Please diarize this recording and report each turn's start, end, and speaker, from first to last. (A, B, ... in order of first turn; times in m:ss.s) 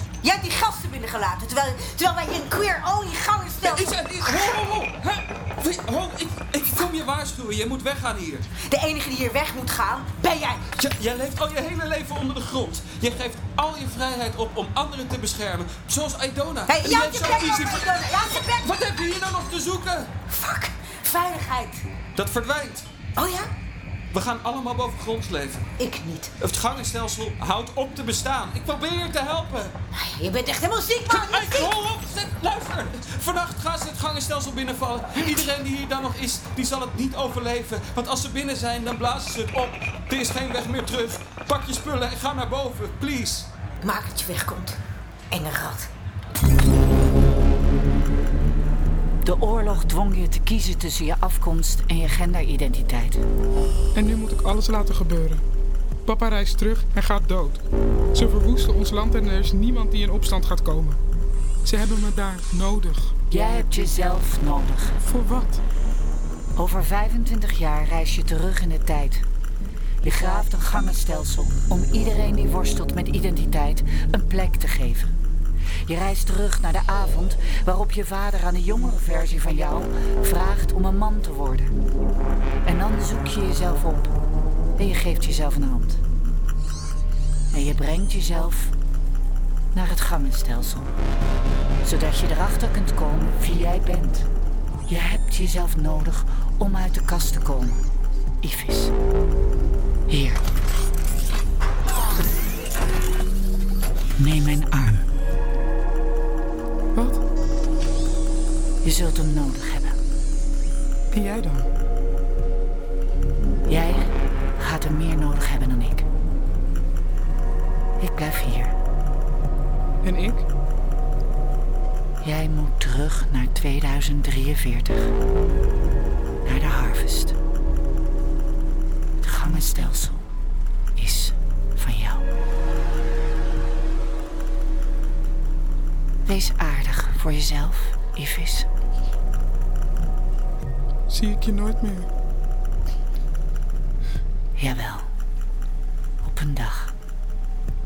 0:00.2-0:04.6 A
0:03.6-0:08.5 B
0:08.6-0:10.7 A
0:10.7-0:20.1 B
0:16.6-0:18.9 A
0:20.3-0:21.9 A
0:22.2-0:22.9 B
0:23.2-0:23.5 A
0:24.1-0:25.7 B
0:25.8-0:26.4 A
0:26.4-0:29.7 B
0:29.9-0:31.7 A
0:31.1-0:43.5 B
0:43.8-0:44.8 A
0:45.3-0:45.9 A
0:49.2-0:53.2 C
0:54.0-0:55.4 D
0:56.1-0:57.6 D
0:58.1-1:01.0 D
1:01.6-1:03.1 D
1:03.3-1:05.0 C
1:05.0-1:05.6 D
1:06.6-1:09.2 C
1:10.0-1:15.1 C
1:15.8-1:21.7 C
1:22.6-1:24.1 C
1:24.8-1:26.0 C
1:27.5-1:28.7 C
1:29.7-1:30.9 C
1:31.8-1:34.3 C
1:34.9-1:37.8 C
1:38.4-1:38.9 C
1:40.1-1:40.4 C
1:44.2-1:45.0 C
1:48.8-1:50.0 C
1:51.1-1:51.7 D
1:53.7-1:56.1 C
1:58.0-1:58.7 C
2:00.0-2:00.4 D
2:02.2-2:05.1 C
2:06.4-2:07.4 C
2:09.2-2:10.2 C
2:11.0-2:12.2 C
2:16.3-2:18.7 C
2:21.1-2:22.1 D
2:24.6-2:25.1 C
2:26.2-2:26.9 C